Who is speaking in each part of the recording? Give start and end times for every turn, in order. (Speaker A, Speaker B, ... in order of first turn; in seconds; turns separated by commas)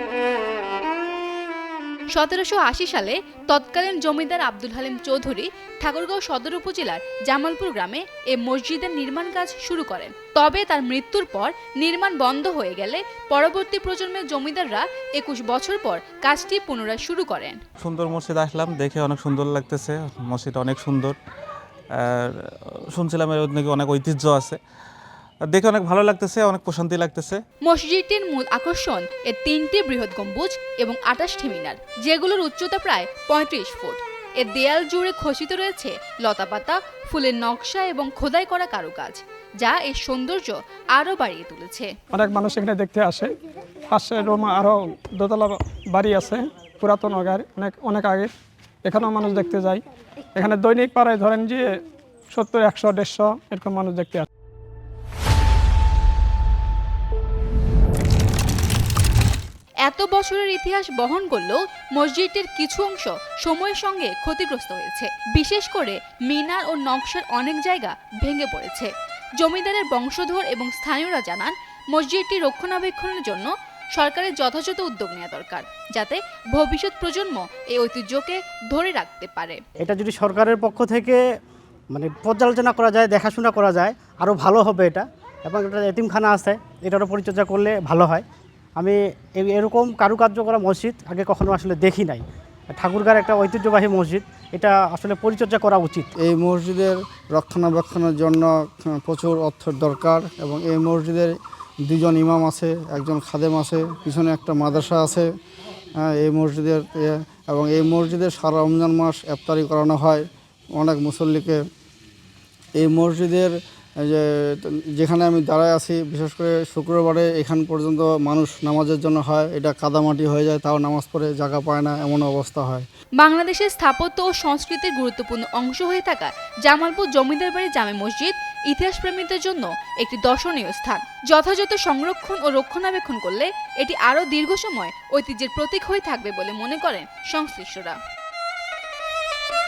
Speaker A: 2.1-17.6, Speaker B: 17.8-21.2, Speaker B: 21.9-24.6, Speaker B: 25.5-27.4, Speaker A: 27.6-41.9, Speaker C: 42.1-43.3, Speaker C: 43.9-48.3, Speaker C: 48.9-49.8, Speaker C: 50.4-51.7, Speaker C: 52.3-54.3, Speaker A: 59.8-79.6, Speaker D: 79.8-81.2, Speaker D: 81.9-88.2, Speaker D: 88.8-96.1, Speaker E: 96.2-105.3, Speaker E: 106.0-111.6, Speaker E: 112.8-122.9, Speaker A: 123.2-138.0